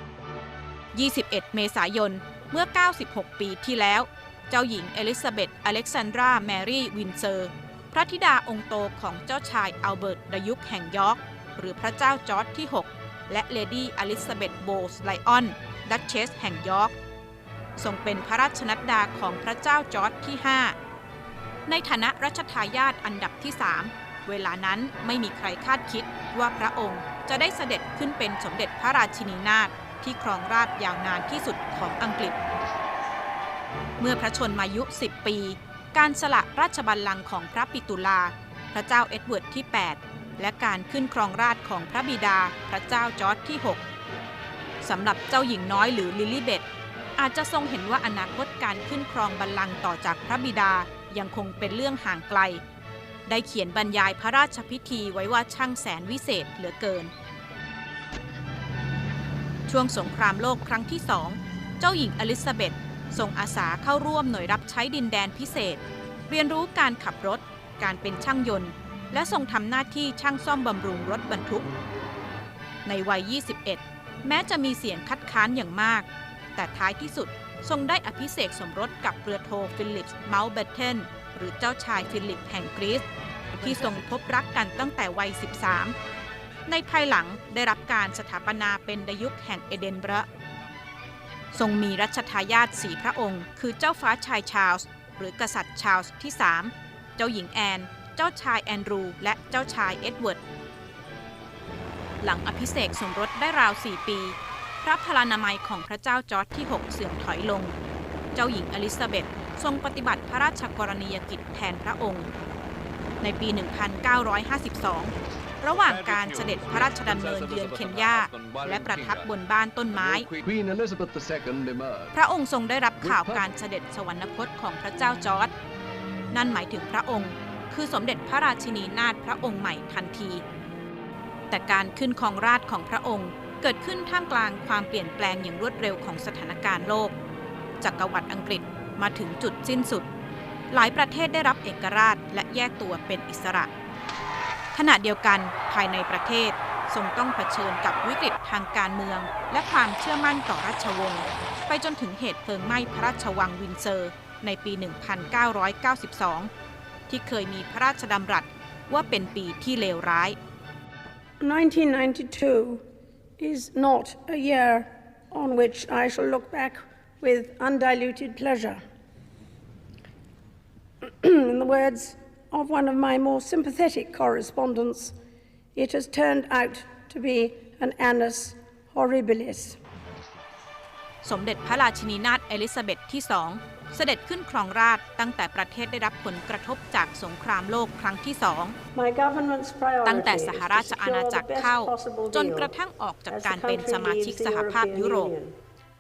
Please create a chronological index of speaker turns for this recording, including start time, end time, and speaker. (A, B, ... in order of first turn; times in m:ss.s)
0:00.9-0:16.9 A
0:17.8-0:20.7 A
0:21.7-0:32.4 A
0:34.0-0:43.8 A
0:44.8-0:46.6 A
0:47.2-0:52.6 A
0:53.3-0:57.1 A
0:59.7-1:11.7 A
1:12.8-1:26.0 A
1:26.7-1:30.3 A
1:31.5-1:40.4 A
1:42.2-1:47.8 A
1:48.3-1:52.3 A
1:53.2-2:00.3 A
1:55.7-1:59.3 B
1:59.9-2:02.2 B
2:02.1-2:05.5 A
2:03.0-2:03.4 B
2:06.3-2:10.4 A
2:11.5-2:17.2 A
2:17.8-2:20.1 A
2:20.7-2:23.7 A
2:24.7-2:36.5 A
2:37.1-2:40.4 A
2:41.4-2:42.8 C
2:43.4-2:48.8 C
2:51.0-2:55.2 C
2:55.7-2:59.8 C
3:01.2-3:08.8 A
3:09.0-3:12.7 C
3:10.0-3:15.3 A
3:13.3-3:15.6 C